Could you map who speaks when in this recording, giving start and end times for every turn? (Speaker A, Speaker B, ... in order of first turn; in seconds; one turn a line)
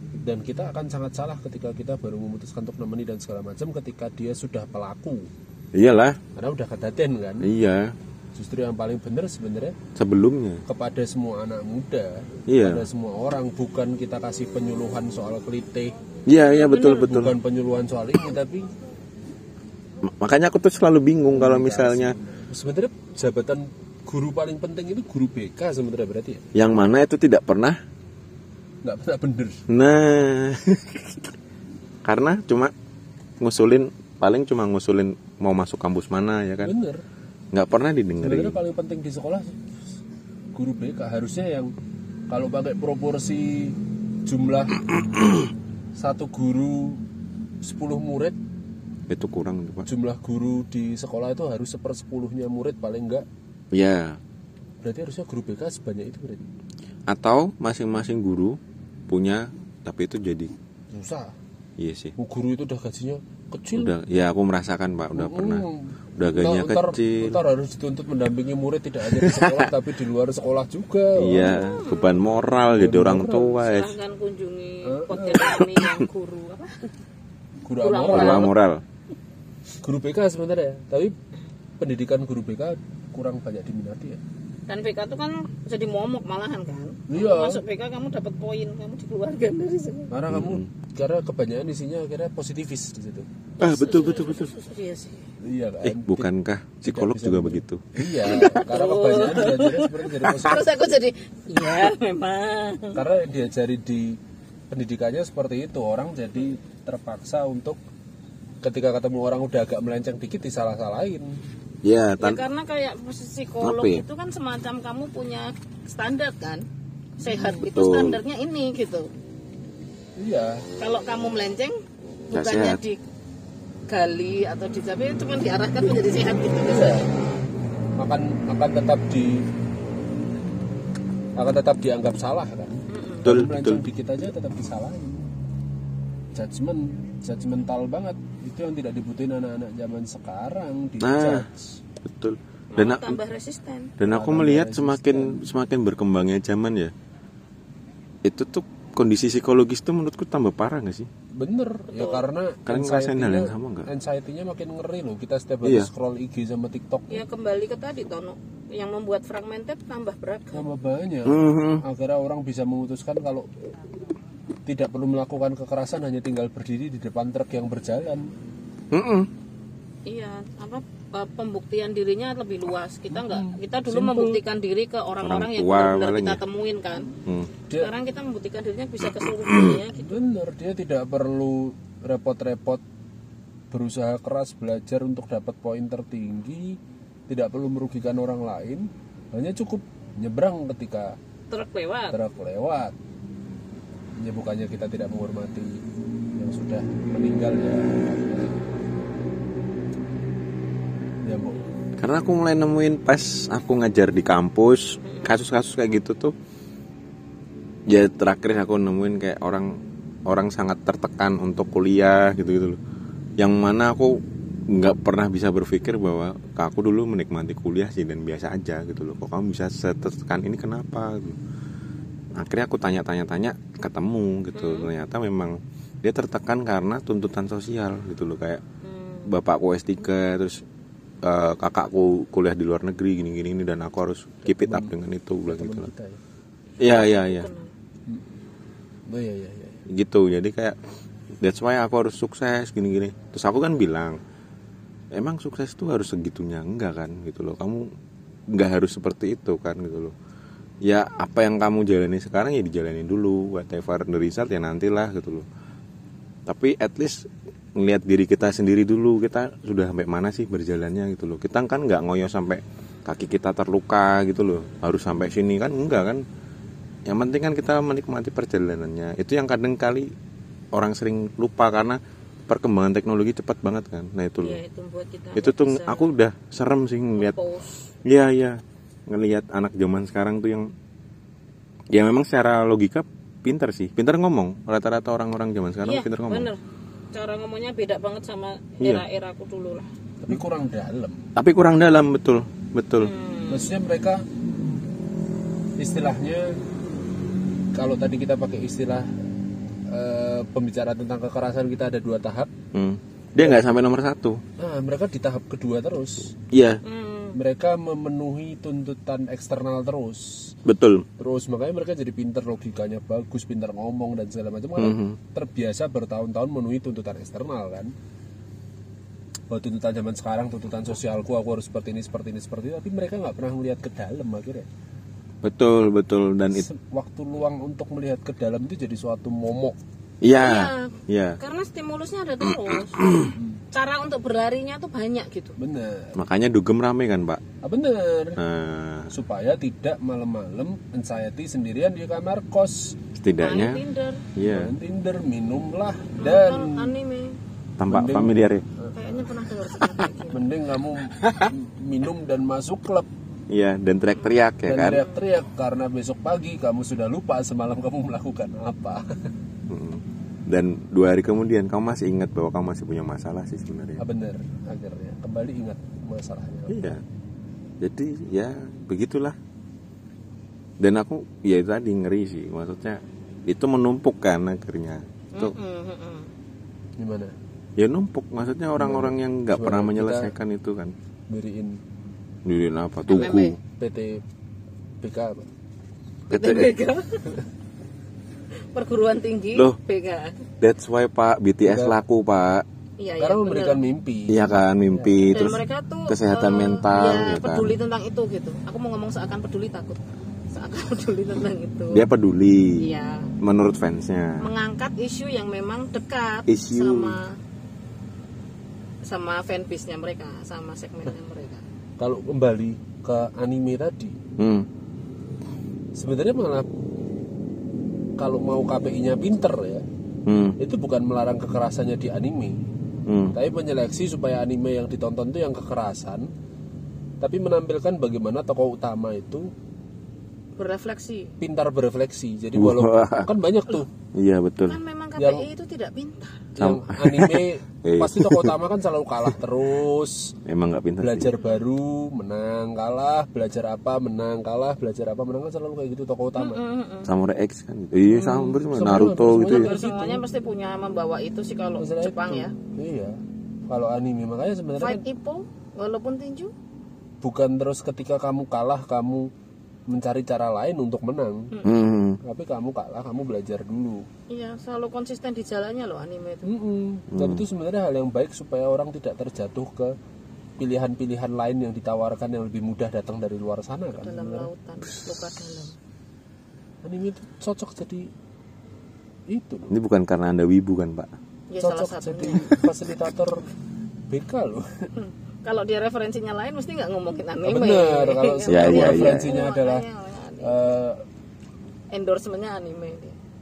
Speaker A: 0.2-5.3
Speaker B: 5.7-6.2
Speaker A: 6.3-7.5
Speaker B: 7.4-8.0
Speaker A: 8.3-9.8
Speaker B: 9.9-10.6
Speaker A: 10.7-15.9
Speaker B: 12.5-12.8
Speaker B: 16.3-17.4
Speaker A: 16.7-18.7
Speaker B: 20.0-22.1
Speaker A: 21.3-26.4
Speaker B: 26.5-27.8
Speaker A: 28.8-29.6
Speaker B: 29.7-31.3
Speaker B: 32.0-32.7
Speaker B: 33.4-36.7
Speaker A: 36.6-37.0
Speaker B: 37.5-38.6
Speaker A: 38.2-39.6
Speaker A: 40.5-41.7
Speaker A: 42.3-44.9
Speaker A: 46.0-47.0
Speaker A: 47.6-48.4
Speaker B: 49.1-49.9
Speaker A: 49.9-53.2
Speaker B: 53.7-54.2
Speaker A: 54.8-56.4
Speaker B: 57.1-58.6
Speaker B: 59.1-60.5
Speaker A: 60.9-61.3
Speaker B: 61.8-62.1
Speaker A: 62.2-63.9
Speaker B: 63.7-65.6
Speaker A: 65.1-71.7
Speaker B: 66.2-67.4
Speaker B: 69.1-69.7
Speaker B: 71.2-74.0
Speaker C: 71.4-72.2
Speaker A: 72.5-73.5
Speaker C: 73.4-76.8
Speaker A: 74.8-75.5
Speaker A: 77.7-78.5
Speaker C: 77.8-78.5
Speaker B: 78.1-78.8
Speaker A: 79.8-81.1
Speaker A: 81.8-84.2
Speaker C: 84.7-90.1
Speaker A: 87.1-87.6
Speaker A: 90.1-93.3
Speaker B: 90.3-90.7
Speaker C: 93.6-95.3
Speaker B: 93.6-94.5
Speaker A: 95.4-96.3
Speaker B: 95.8-97.8
Speaker A: 96.8-100.7
Speaker C: 98.2-103.0
Speaker A: 102.9-104.2
Speaker A: 104.7-107.8
Speaker A: 108.6-111.4
Speaker B: 111.8-112.4
Speaker C: 112.2-116.6
Speaker B: 113.6-114.0
Speaker C: 117.2-119.1
Speaker A: 117.2-117.6
Speaker B: 117.6-118.2
Speaker A: 120.2-120.6
Speaker C: 120.8-123.0
Speaker B: 122.3-122.8
Speaker C: 123.9-127.1
Speaker A: 126.7-127.1
Speaker A: 128.0-129.5
Speaker A: 131.4-135.2
Speaker C: 132.9-133.3
Speaker B: 133.2-133.8
Speaker A: 136.3-141.8
Speaker B: 141.0-141.5
Speaker B: 142.0-143.2
Speaker C: 142.7-143.9
Speaker B: 144.0-146.9
Speaker A: 144.0-145.4
Speaker B: 148.2-151.1
Speaker A: 151.3-157.2
Speaker C: 151.9-152.2
Speaker B: 152.7-153.9
Speaker B: 155.6-155.9
Speaker C: 157.1-160.6
Speaker A: 160.5-163.5
Speaker B: 161.2-161.8
Speaker A: 164.7-168.3
Speaker B: 168.9-169.3
Speaker C: 170.1-177.1
Speaker A: 173.1-174.4
Speaker B: 175.2-176.4
Speaker C: 177.8-180.2
Speaker B: 179.2-179.8
Speaker A: 179.9-182.8
Speaker A: 183.7-191.2
Speaker C: 191.5-192.2
Speaker A: 192.1-192.9
Speaker A: 194.2-195.8
Speaker A: 196.3-198.6
Speaker A: 201.2-201.6
Speaker B: 202.0-206.3
Speaker C: 205.0-205.3
Speaker B: 207.9-212.8
Speaker B: 213.4-221.4
Speaker B: 222.3-228.6
Speaker C: 224.5-224.9
Speaker C: 228.8-229.3
Speaker B: 229.2-230.6
Speaker B: 231.2-235.9
Speaker A: 234.4-234.9
Speaker A: 235.5-236.2
Speaker C: 236.8-237.7
Speaker B: 236.8-237.5
Speaker A: 239.1-239.8
Speaker B: 239.9-240.8
Speaker B: 241.4-244.2
Speaker B: 245.1-247.8
Speaker B: 248.5-250.1
Speaker B: 250.8-255.4
Speaker B: 256.4-266.2
Speaker B: 267.1-270.1
Speaker B: 270.7-274.6
Speaker C: 274.4-276.1
Speaker B: 275.3-277.4
Speaker C: 277.1-277.8
Speaker B: 278.0-280.7
Speaker B: 281.9-286.5
Speaker C: 285.8-286.6
Speaker C: 287.1-289.9
Speaker B: 288.8-289.0
Speaker A: 290.2-291.2
Speaker B: 291.4-293.1
Speaker C: 293.0-293.7
Speaker A: 293.5-294.2
Speaker A: 295.8-296.6
Speaker A: 297.7-299.1
Speaker A: 299.9-302.5
Speaker B: 302.7-304.4
Speaker A: 303.4-303.7
Speaker A: 304.6-306.3
Speaker B: 306.5-306.8
Speaker C: 306.8-307.4
Speaker A: 307.3-310.6
Speaker B: 310.6-311.1
Speaker A: 311.2-317.9
Speaker B: 314.8-315.2
Speaker A: 319.5-324.7
Speaker B: 325.4-326.6
Speaker A: 326.5-329.8
Speaker B: 330.2-331.4
Speaker C: 330.4-335.6
Speaker B: 332.5-333.3
Speaker A: 333.2-333.6
Speaker A: 335.6-336.2
Speaker B: 336.1-337.4
Speaker A: 337.6-338.4
Speaker B: 338.4-339.1
Speaker A: 339.1-343.0
Speaker B: 343.1-343.8
Speaker C: 343.4-344.3
Speaker B: 344.4-344.7
Speaker A: 344.4-346.9
Speaker C: 346.2-347.4
Speaker B: 347.8-348.6
Speaker A: 347.9-348.9
Speaker C: 348.9-350.5
Speaker B: 349.8-350.0
Speaker A: 350.3-353.1
Speaker B: 351.2-351.5
Speaker B: 353.5-355.0
Speaker A: 354.6-359.2
Speaker C: 354.9-355.2
Speaker B: 359.7-364.0
Speaker A: 364.0-367.0
Speaker B: 366.7-367.0
Speaker B: 367.8-369.4
Speaker B: 370.8-375.5
Speaker C: 375.3-376.3
Speaker A: 377.0-377.3
Speaker B: 377.8-380.9
Speaker A: 378.8-380.3
Speaker A: 381.3-381.8
Speaker B: 382.4-383.6
Speaker C: 383.1-383.6
Speaker A: 383.2-384.2
Speaker A: 385.0-385.5
Speaker B: 386.3-386.7
Speaker C: 386.3-387.2
Speaker C: 388.7-390.4
Speaker B: 390.6-392.6
Speaker A: 391.6-392.0
Speaker C: 393.0-393.8
Speaker A: 393.2-395.4
Speaker B: 394.3-397.8
Speaker C: 395.3-400.0
Speaker C: 400.5-402.1
Speaker B: 401.9-404.5
Speaker C: 402.8-403.3
Speaker C: 404.4-407.4
Speaker B: 406.5-407.2
Speaker C: 409.0-411.6
Speaker A: 412.0-414.2
Speaker B: 414.4-414.7
Speaker A: 415.9-416.7
Speaker A: 418.2-419.9
Speaker B: 420.2-420.6
Speaker A: 420.6-422.6
Speaker B: 423.1-423.3
Speaker A: 423.3-426.3
Speaker A: 427.2-429.5
Speaker C: 430.6-431.4
Speaker A: 431.4-433.9
Speaker B: 432.5-433.3
Speaker B: 434.1-434.8
Speaker C: 434.7-436.5
Speaker A: 435.2-435.5
Speaker A: 436.6-440.3
Speaker B: 436.6-438.6
Speaker B: 440.4-441.3
Speaker A: 441.0-446.6
Speaker C: 446.4-447.1
Speaker B: 447.0-449.7
Speaker A: 448.1-450.2
Speaker C: 449.4-452.5
Speaker A: 451.8-453.2
Speaker A: 453.7-455.0
Speaker C: 454.8-456.5
Speaker A: 457.2-459.3
Speaker A: 459.9-461.5
Speaker C: 461.5-461.8
Speaker B: 461.6-462.2
Speaker A: 462.2-464.1
Speaker C: 464.3-466.5
Speaker A: 466.4-469.9
Speaker B: 467.1-467.4
Speaker A: 470.6-474.5
Speaker C: 473.9-475.8
Speaker A: 476.8-478.1
Speaker A: 479.3-479.7
Speaker B: 479.7-481.1
Speaker C: 481.5-482.5
Speaker A: 481.6-483.5
Speaker A: 484.1-484.9
Speaker C: 484.9-490.6
Speaker A: 487.4-489.8
Speaker B: 488.5-489.3
Speaker A: 490.4-491.0
Speaker C: 491.9-493.2